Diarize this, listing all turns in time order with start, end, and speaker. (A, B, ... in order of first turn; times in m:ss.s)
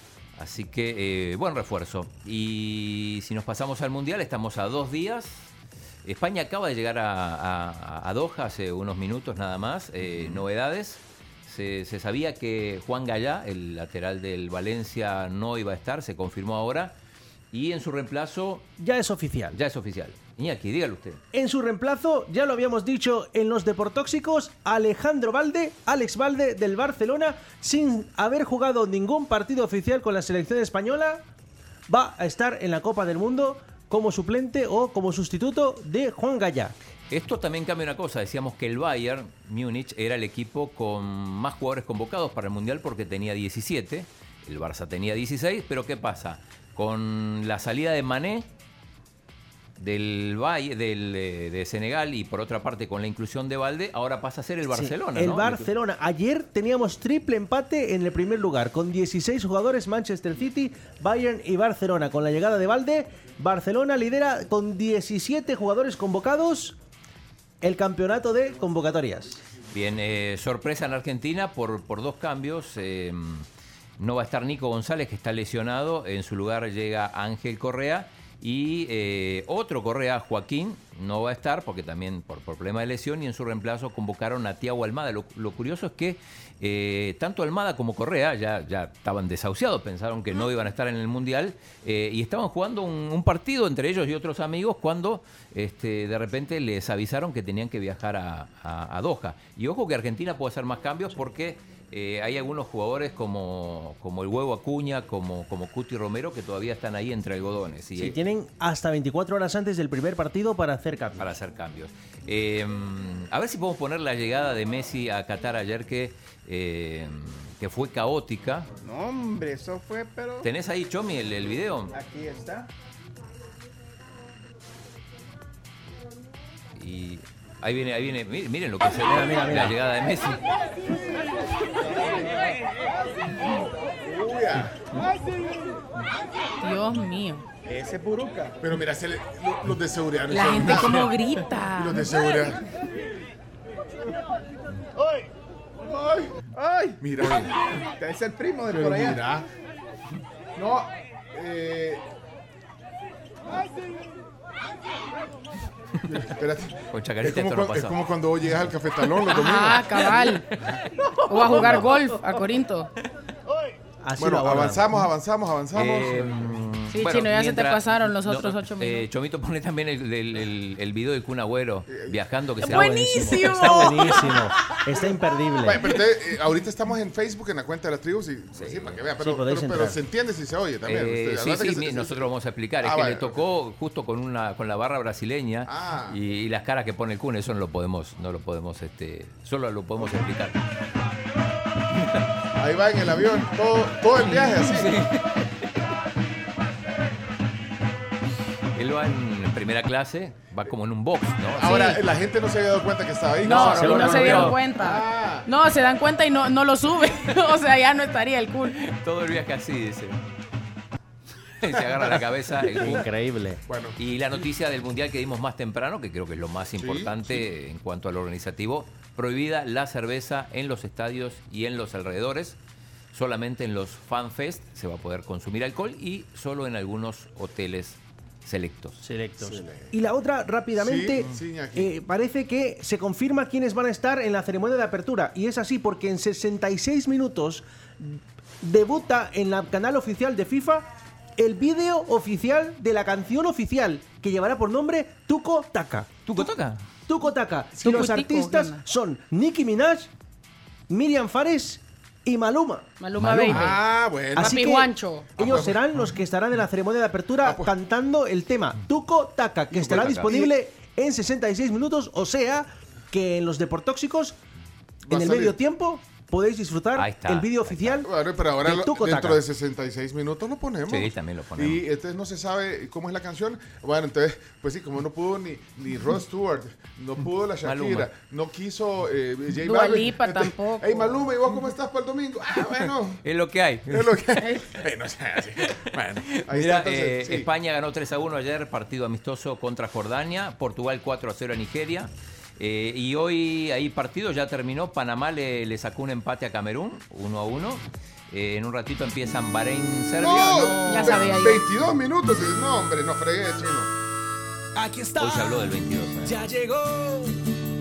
0:00.4-0:05.5 A
0:06.0-0:16.9 A
0:17.5-0:18.7 A
0:18.8-0:19.6 B
0:19.5-0:21.2 A
0:21.3-0:31.2 B
0:31.9-0:36.7 B
0:37.1-0:48.5 A
0:49.8-0:55.7 A
0:54.7-1:06.8 B
1:07.6-1:09.4 B
1:09.7-1:13.5 A
1:14.0-1:48.2 A
1:48.0-1:51.3 B
1:51.2-1:58.7 A
1:58.8-2:00.5 C
2:00.4-2:01.9 A
2:01.9-2:02.7 C
2:06.8-2:10.4 A
2:09.0-2:09.8 B
2:14.0-2:14.8 D
2:16.6-2:17.4 E
2:17.6-2:18.6 C
2:18.6-2:21.1 D
2:20.3-2:22.1 E
2:21.7-2:22.6 D
2:25.9-2:29.2 C
2:27.0-2:27.5 D
2:28.7-2:29.5 D
2:30.6-2:32.0 D
2:36.1-2:40.8 D
2:36.9-2:38.0 A
2:39.3-2:40.4 E
2:41.3-2:42.9 E
2:41.4-2:41.9 D
2:44.0-2:45.1 B
2:44.2-2:46.6 D
2:45.7-2:53.2 A
2:46.9-2:49.0 E
2:51.9-2:52.2 D
2:52.6-2:54.4 E
2:52.6-2:55.9 B
2:55.6-3:02.3 D
2:58.5-2:59.0 A
2:59.2-3:00.0 B
3:00.8-3:10.6 A
3:02.8-3:03.4 D
3:05.6-3:06.2 D
3:12.6-3:15.0 D
3:14.2-3:15.4 A
3:18.7-3:22.0 A
3:21.5-3:25.5 D
3:21.6-3:22.0 E
3:23.4-3:24.6 A
3:23.4-3:28.8 E
3:23.8-3:24.6 B
3:28.8-3:30.2 A
3:31.6-3:33.1 A
3:32.7-3:33.6 B
3:33.7-3:34.0 D
3:34.0-3:42.6 A
3:36.8-3:37.4 D
3:43.1-3:49.0 A
3:49.0-4:06.5 B
3:49.4-3:49.9 D
3:50.8-3:51.9 D
4:06.2-4:06.8 A
4:07.1-4:10.1 B
4:07.8-4:08.8 E
4:10.9-4:13.8 B
4:13.0-4:13.8 E
4:13.4-4:14.8 D
4:14.3-4:24.4 B
4:14.4-4:15.3 E
4:15.4-4:15.8 D
4:17.4-4:17.7 D
4:19.7-4:20.4 A
4:20.2-4:20.5 D
4:25.0-4:25.6 D
4:25.1-4:28.1 B
4:27.0-4:28.0 A
4:28.0-4:43.2 D
4:28.6-4:29.4 B
4:30.9-4:31.8 A
4:37.6-4:38.1 A
4:39.6-4:41.2 E
4:42.6-4:44.2 A
4:43.9-4:47.5 D
4:44.4-4:44.7 E
4:45.6-5:01.4 A
5:00.2-5:03.9 D
5:00.8-5:01.6 E
5:04.8-5:05.5 B
5:05.2-5:06.4 A
5:06.2-5:07.3 B